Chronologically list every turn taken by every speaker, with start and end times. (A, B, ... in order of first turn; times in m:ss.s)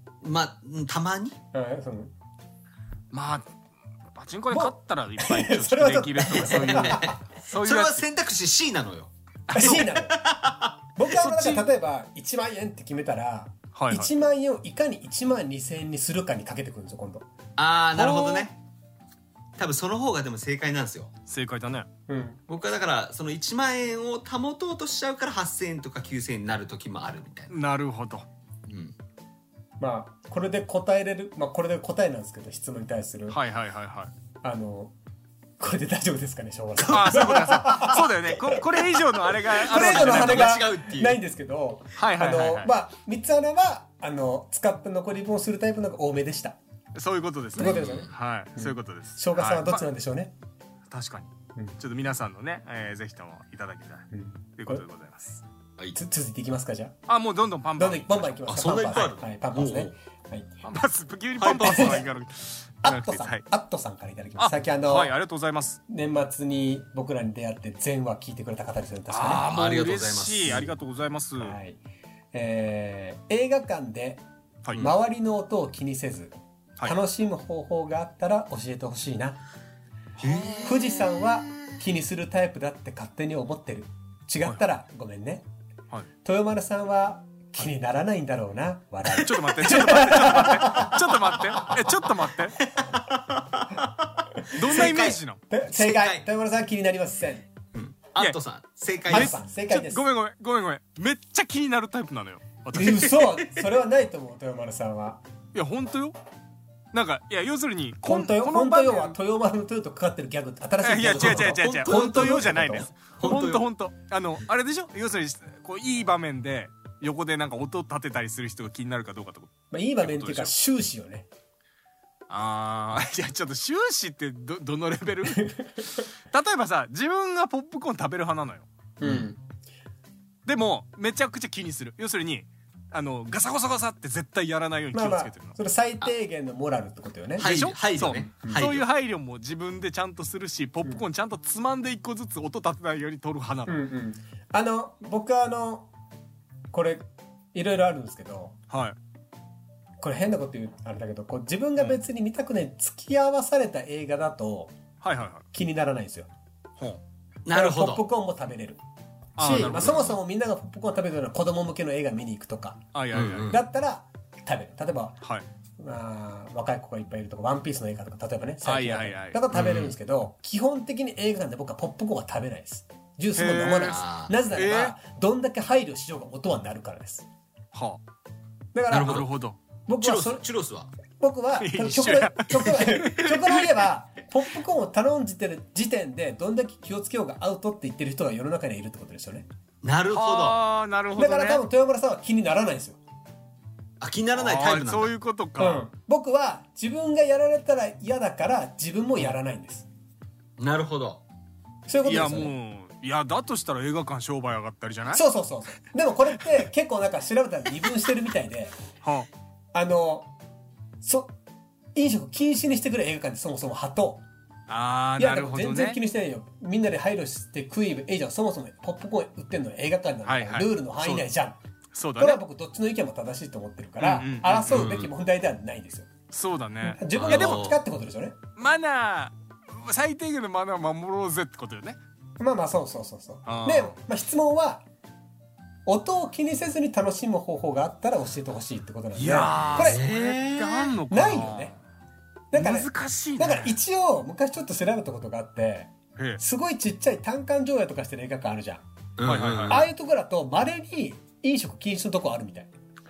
0:00.2-0:01.4 A
0:01.5-0:02.1 B
0:03.1-0:03.5 C
0:04.2-0:08.1 C
0:04.5-0:07.2 B
0:06.4-0:10.8 A
0:09.5-0:09.8 C
0:09.5-0:10.2 B
0:11.0-0:17.3 B
0:11.1-0:11.7 C
0:13.8-0:14.1 C
0:17.6-0:18.6 A
0:18.0-0:18.5 B
0:19.6-0:21.1 A
0:21.3-0:21.9 C
0:22.1-0:22.4 B
0:22.5-0:27.6 A
0:27.5-0:28.3 C
0:28.7-0:28.9 A
0:29.8-0:33.4 B
0:33.3-0:34.1 C
0:34.4-0:35.0 B
0:35.6-0:38.8 B
0:36.8-0:37.4 A
0:36.9-0:40.6 C
0:39.5-0:46.6 B
0:39.5-0:41.2 A
0:42.0-0:42.7 C
0:47.0-0:49.8 C
0:47.6-0:50.3 B
0:47.6-0:48.1 A
0:50.9-0:55.4 C
0:54.1-0:54.8 B
0:55.9-0:57.0 B
0:57.1-0:59.0 C
0:57.8-1:00.5 B
0:58.5-0:59.9 A
1:00.6-1:03.4 C
1:01.4-1:02.1 A
1:01.6-1:02.1 B
1:02.8-1:05.1 B
1:04.4-1:05.8 C
1:05.9-1:09.5 B
1:09.1-1:11.6 C
1:09.4-1:10.7 A
1:11.4-1:11.8 B
1:12.3-1:14.2 B
1:14.8-1:19.4 B
1:20.2-1:20.7 C
1:20.2-1:21.8 A
1:20.6-1:25.5 B
1:26.2-1:31.8 B
1:29.2-1:32.6 C
1:32.7-1:35.2 A
1:34.5-1:35.4 C
1:34.7-1:37.5 B
1:35.7-1:36.2 A
1:37.7-1:39.3 A
1:39.1-1:40.0 B
1:39.1-1:43.3 C
1:42.7-1:45.2 B
1:45.5-1:46.2 C
1:46.9-1:49.2 C
1:48.0-1:52.9 B
1:50.8-2:00.5 C
1:51.1-1:53.7 A
1:59.7-2:01.3 B
2:02.3-2:08.7 C
2:09.0-2:09.4 B
2:09.0-2:09.3 A
2:10.5-2:15.6 C
2:14.9-2:17.5 B
2:17.4-2:18.8 A
2:17.4-2:23.8 C
2:18.1-2:18.7 B
2:23.7-2:25.9 B
2:26.7-2:28.6 B
2:28.7-2:29.0 C
2:30.0-2:34.7 B
2:35.0-2:35.4 C
2:35.5-2:36.3 B
2:37.5-2:38.0 A
2:37.5-2:38.8 B
2:39.4-2:40.2 C
2:39.4-2:42.8 B
2:42.9-2:43.6 C
2:43.1-2:43.6 A
2:43.5-2:45.2 B
2:45.8-2:57.3 B
2:48.6-2:49.4 C
2:49.5-2:50.0 A
2:53.4-2:55.0 C
2:53.8-2:54.3 A
2:57.7-2:58.0 C
2:58.7-2:59.3 B
2:58.9-2:59.3 A
2:59.0-2:59.6 C
2:59.9-3:00.4 B
3:00.0-3:00.9 A
3:01.1-3:09.5 B
3:01.6-3:03.8 C
3:09.8-3:10.6 A
3:10.1-3:11.6 C
3:11.2-3:13.0 B
3:14.0-3:15.1 A
3:14.4-3:15.9 C
3:15.6-3:19.9 B
3:20.6-3:21.2 A
3:21.9-3:22.5 B
3:22.0-3:25.2 C
3:25.1-3:28.7 B
3:29.0-3:29.3 C
3:29.7-3:30.3 B
3:31.0-3:31.3 B
3:32.0-3:34.2 B
3:34.7-3:36.0 C
3:35.2-3:41.6 B
3:40.3-3:41.3 C
3:41.9-3:42.4 C
3:42.2-3:46.1 B
3:44.0-3:44.9 C
3:44.7-3:45.1 A
3:46.3-3:47.6 C
3:46.8-3:48.4 B
3:47.1-3:47.8 A
3:48.6-3:52.0 C
3:52.4-3:54.8 B
3:53.4-3:54.0 C
3:55.9-4:00.0 B
3:59.2-4:01.8 C
3:59.6-4:01.0 A
4:01.1-4:01.7 B
4:02.5-4:08.8 B
4:02.5-4:03.8 C
4:09.2-4:09.9 A
4:09.2-4:09.9 C
4:09.7-4:12.7 B